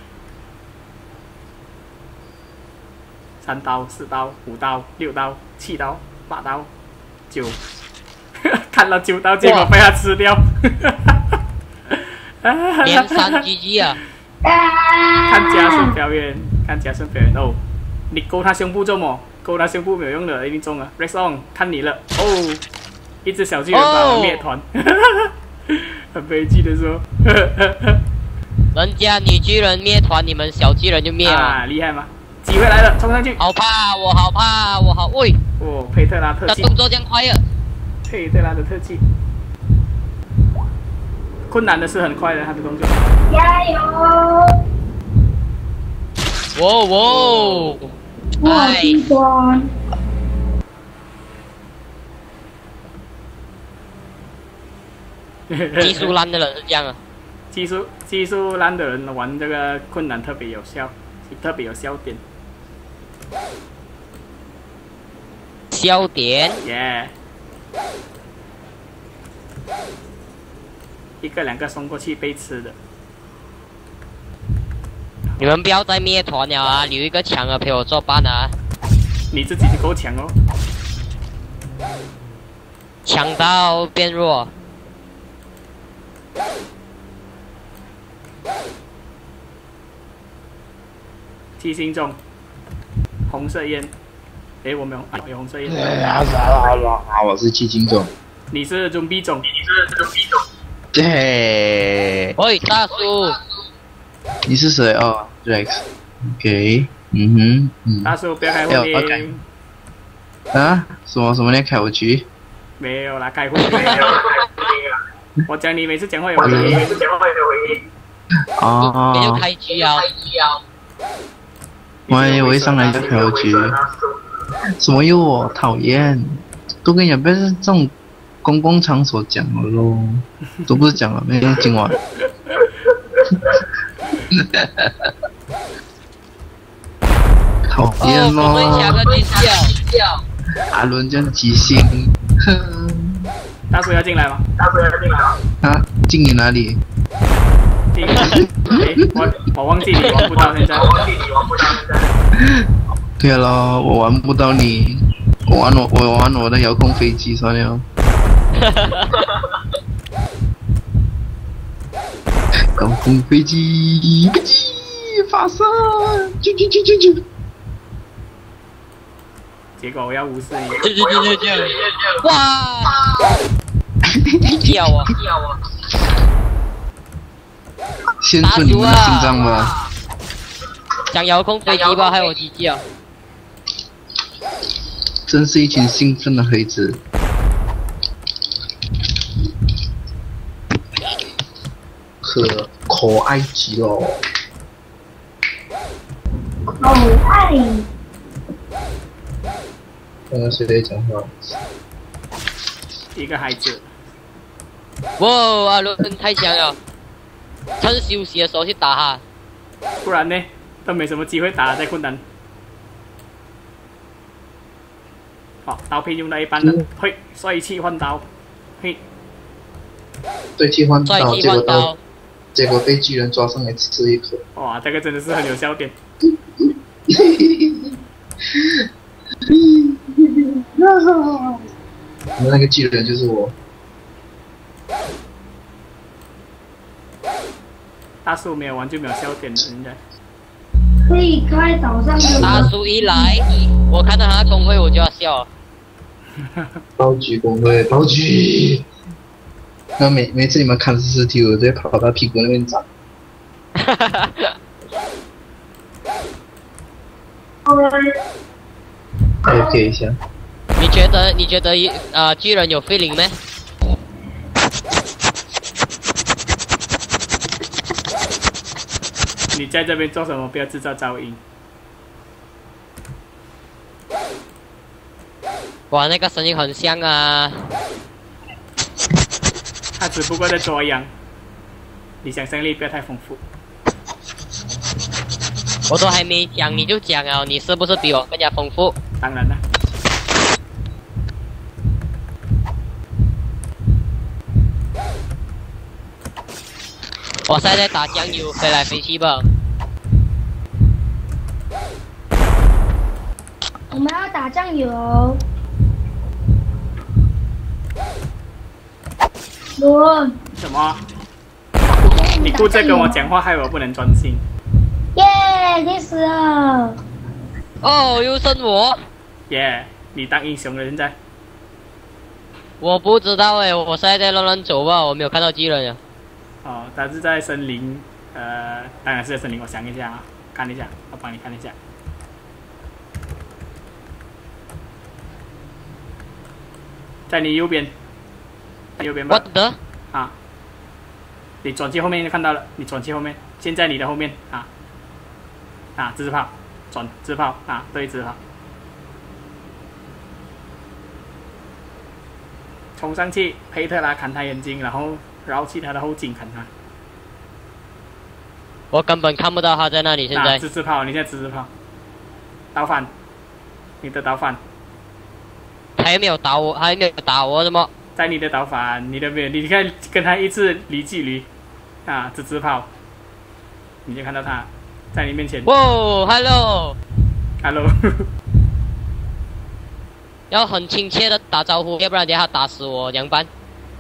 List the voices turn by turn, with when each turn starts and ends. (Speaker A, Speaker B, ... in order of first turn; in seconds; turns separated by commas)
Speaker A: 3.4-6.7, Speaker A: 7.3-7.6, Speaker A: 8.5-11.2, Speaker B: 9.4-9.7, Speaker A: 11.9-13.4, Speaker B: 12.8-14.0, Speaker C: 14.4-15.9, Speaker A: 15.3-22.6, Speaker A: 23.2-28.0, Speaker B: 23.7-24.5, Speaker B: 28.7-31.6, Speaker A: 31.2-33.4, Speaker B: 33.4-35.4, Speaker A: 35.6-36.7, Speaker B: 36.5-37.4, Speaker A: 38.1-39.0, Speaker A: 41.5-43.1, Speaker C: 43.3-44.5, Speaker B: 46.5-47.9, Speaker A: 47.0-47.8, Speaker C: 48.4-49.7, Speaker B: 48.4-49.0, Speaker A: 55.5-56.1, Speaker B: 55.8-57.0, Speaker A: 57.5-62.2, Speaker B: 65.7-66.6, Speaker A: 66.6-67.1, Speaker A: 71.2-72.8, Speaker B: 75.4-78.5, Speaker A: 79.3-80.3, Speaker B: 83.1-84.5, Speaker A: 91.6-92.2, Speaker A: 93.3-93.9, Speaker A: 94.6-96.2, Speaker D: 96.0-98.1, Speaker A: 98.5-99.5, Speaker D: 100.9-102.3, Speaker B: 102.4-103.4, Speaker D: 104.5-108.1, Speaker A: 108.0-109.4, Speaker D: 108.7-109.3, Speaker D: 110.5-112.2, Speaker A: 112.8-114.4, Speaker B: 113.6-114.3, Speaker A: 115.5-117.0, Speaker D: 116.4-116.9, Speaker D: 118.6-119.5, Speaker B: 118.8-120.6, Speaker A: 122.1-123.2, Speaker D: 122.1-123.8, Speaker D: 124.8-132.0, Speaker D: 134.3-135.1, Speaker D: 137.7-139.0, Speaker B: 138.0-139.8, Speaker D: 140.7-143.3, Speaker A: 143.7-144.5, Speaker D: 145.6-146.8, Speaker A: 147.9-151.0, Speaker D: 148.1-148.8, Speaker B: 149.9-150.8, Speaker D: 152.4-152.6, Speaker D: 153.2-157.8, Speaker B: 158.6-159.3, Speaker D: 162.8-167.2, Speaker A: 169.8-170.9, Speaker B: 170.8-173.0, Speaker D: 174.1-174.9, Speaker B: 174.6-175.2, Speaker D: 178.2-179.7, Speaker B: 178.4-179.9, Speaker B: 181.1-182.8, Speaker D: 185.3-187.0, Speaker D: 192.2-194.2, Speaker C: 196.7-197.8, Speaker D: 200.3-201.6, Speaker A: 203.1-203.9, Speaker B: 205.2-206.8, Speaker B: 207.8-209.2, Speaker A: 210.0-212.2, Speaker A: 215.7-218.3, Speaker D: 220.6-221.9, Speaker B: 221.1-222.0, Speaker D: 222.5-224.4, Speaker A: 224.6-225.9, Speaker D: 227.1-227.9, Speaker D: 228.5-228.8, Speaker D: 229.5-231.6, Speaker D: 232.4-233.5, Speaker A: 238.2-240.0, Speaker C: 241.1-242.7, Speaker D: 242.2-242.7, Speaker B: 242.3-245.5, Speaker D: 247.0-248.8, Speaker D: 250.0-252.8, Speaker B: 253.8-254.5, Speaker C: 257.7-258.0, Speaker D: 259.4-260.2, Speaker B: 260.8-263.3, Speaker A: 269.5-271.4, Speaker B: 275.9-277.6, Speaker A: 280.0-281.1, Speaker A: 282.2-283.4, Speaker B: 285.9-289.0, Speaker A: 289.2-289.6, Speaker B: 297.5-299.4, Speaker C: 303.9-305.4, Speaker C: 309.8-310.3, Speaker A: 310.6-311.0, Speaker C: 312.0-313.3, Speaker A: 312.4-314.4, Speaker C: 315.2-316.9, Speaker B: 317.8-319.0, Speaker A: 319.5-321.1, Speaker B: 322.8-326.0, Speaker A: 326.6-331.8, Speaker A: 337.3-337.9, Speaker A: 339.0-339.4, Speaker B: 339.3-339.8, Speaker A: 341.6-344.7, Speaker A: 346.0-348.4, Speaker A: 353.0-356.7, Speaker B: 358.9-360.6, Speaker A: 360.3-361.7, Speaker A: 362.7-363.1, Speaker A: 364.0-364.6, Speaker B: 366.0-367.9, Speaker A: 368.2-371.5, Speaker A: 372.1-372.9, Speaker A: 374.1-375.7, Speaker B: 375.6-377.0, Speaker A: 377.6-378.2, Speaker B: 380.5-383.5